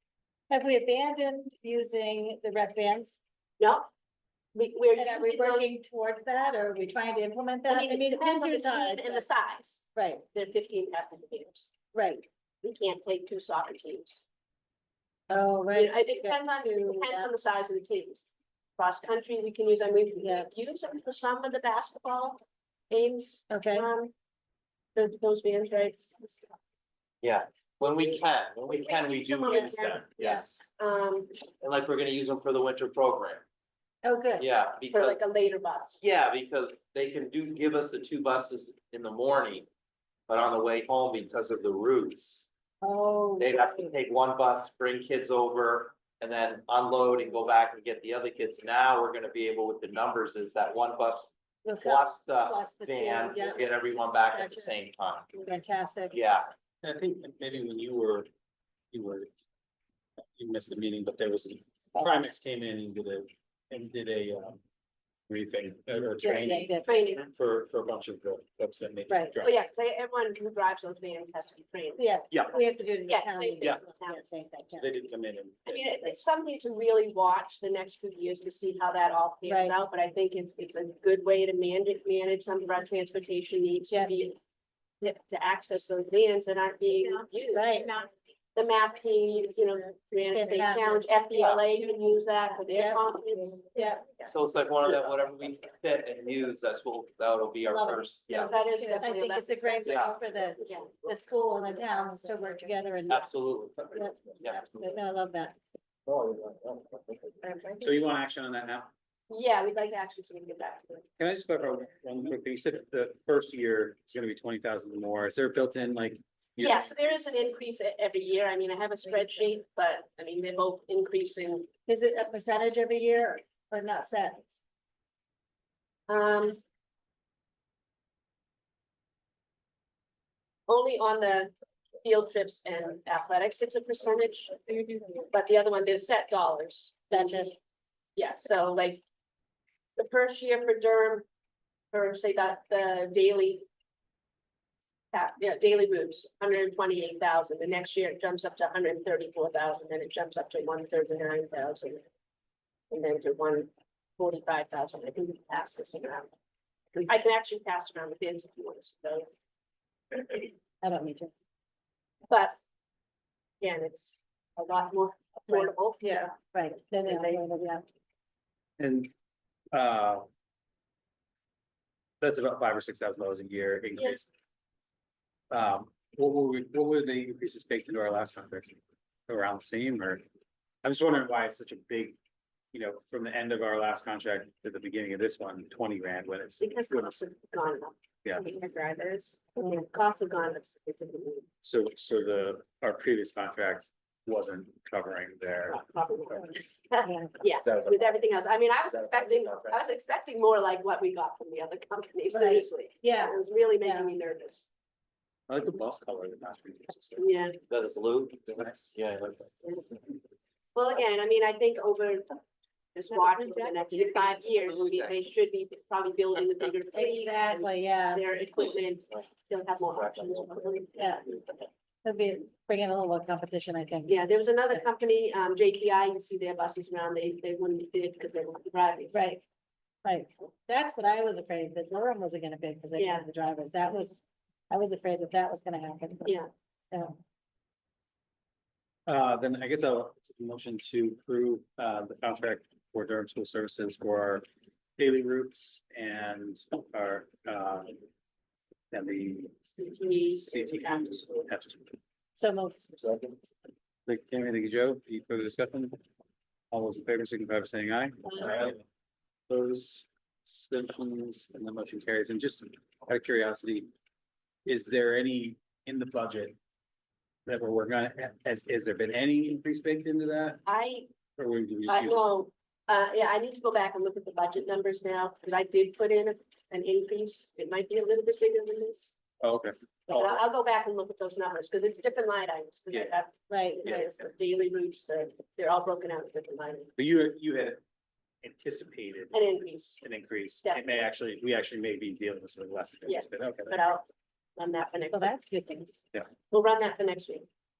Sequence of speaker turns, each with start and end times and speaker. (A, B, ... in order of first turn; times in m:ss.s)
0:00.5-0:03.2 A
0:03.6-0:03.9 B
0:04.6-0:05.7 B
0:05.0-0:09.3 A
0:07.7-0:11.7 B
0:10.0-0:10.2 A
0:11.9-0:12.3 A
0:12.6-0:14.2 B
0:15.3-0:17.3 A
0:15.7-0:18.3 B
0:18.8-0:24.1 B
0:20.2-0:20.5 A
0:23.5-0:23.9 A
0:25.0-0:26.5 B
0:27.2-0:30.5 C
0:28.7-0:31.3 B
0:29.5-0:30.5 A
0:31.6-0:33.4 C
0:34.0-0:34.4 A
0:34.4-0:35.2 C
0:34.9-0:36.0 B
0:36.0-0:39.7 C
0:40.3-0:42.5 C
0:42.8-0:43.9 A
0:43.4-0:55.4 C
0:51.6-0:54.7 A
0:55.4-0:56.5 A
0:56.1-0:56.5 C
0:56.8-0:58.3 D
0:58.9-0:59.3 D
1:00.4-1:04.6 D
1:05.3-1:09.6 D
1:06.2-1:07.1 A
1:06.5-1:07.2 B
1:09.4-1:12.2 B
1:12.0-1:14.9 A
1:13.1-1:14.2 B
1:14.8-1:16.0 D
1:15.7-1:24.4 B
1:19.5-1:19.8 A
1:23.9-1:24.2 A
1:25.0-1:27.8 B
1:27.5-1:28.1 A
1:28.6-1:33.6 B
1:30.3-1:31.2 A
1:32.7-1:34.2 A
1:34.3-1:38.6 C
1:37.7-1:43.3 A
1:38.3-1:40.1 B
1:39.8-1:40.2 C
1:40.6-1:40.9 B
1:43.1-1:44.8 C
1:43.9-1:45.6 A
1:46.1-1:47.0 C
1:47.4-1:47.9 B
1:47.8-1:48.9 D
1:49.3-1:51.1 B
1:51.2-1:56.9 D
1:56.6-2:01.7 B
2:01.9-2:04.6 A
2:06.1-2:06.6 B
2:10.7-2:11.5 B
2:12.0-2:17.5 B
2:17.1-2:17.6 A
2:18.2-2:19.0 B
2:20.0-2:21.3 B
2:21.9-2:23.7 B
2:25.1-2:32.0 B
2:32.9-2:36.3 B
2:36.9-2:39.3 B
2:40.8-2:41.3 A
2:42.3-2:42.6 B
2:43.6-2:46.4 B
2:46.5-2:47.8 A
2:47.0-2:47.4 B
2:48.8-2:49.1 D
2:49.7-2:50.3 D
2:52.2-2:54.3 D
2:55.5-2:58.7 D
2:59.3-3:00.2 D
3:00.8-3:02.2 D
3:02.7-3:07.2 D
3:06.6-3:11.5 B
3:11.6-3:15.8 D
3:15.7-3:24.7 B
3:17.0-3:17.3 A
3:17.6-3:18.0 C
3:18.9-3:19.8 C
3:22.3-3:24.1 A
3:25.5-3:27.3 D
3:27.2-3:27.6 B
3:27.7-3:29.5 C
3:28.5-3:29.0 D
3:30.8-3:32.4 B
3:33.0-3:41.7 B
3:34.0-3:35.1 C
3:36.9-3:38.2 A
3:41.0-3:41.2 A
3:42.0-3:44.2 A
3:44.1-3:49.3 B
3:49.1-3:49.4 A
3:50.0-3:56.4 A
3:53.0-3:53.3 B
3:59.1-4:04.4 D
4:05.0-4:08.0 D
4:08.9-4:09.6 D
4:09.7-4:11.5 B
4:10.3-4:11.9 D
4:12.4-4:13.2 A
4:14.1-4:16.0 D
4:16.7-4:18.8 D
4:18.3-4:18.7 B
4:19.5-4:23.9 D
4:24.7-4:26.6 D
4:27.5-4:30.6 D
4:30.7-4:31.1 B
4:31.4-4:32.2 D
4:31.9-4:39.1 B
4:39.4-4:40.4 D
4:40.1-4:46.9 B
4:43.5-4:43.8 A
4:47.0-4:47.8 D
4:48.4-4:49.4 D
4:49.3-4:50.0 B
4:50.0-4:53.8 D
4:50.6-4:50.9 B
4:53.1-4:54.1 B
4:54.6-4:55.4 B
4:55.1-4:56.0 A
4:56.5-4:57.5 B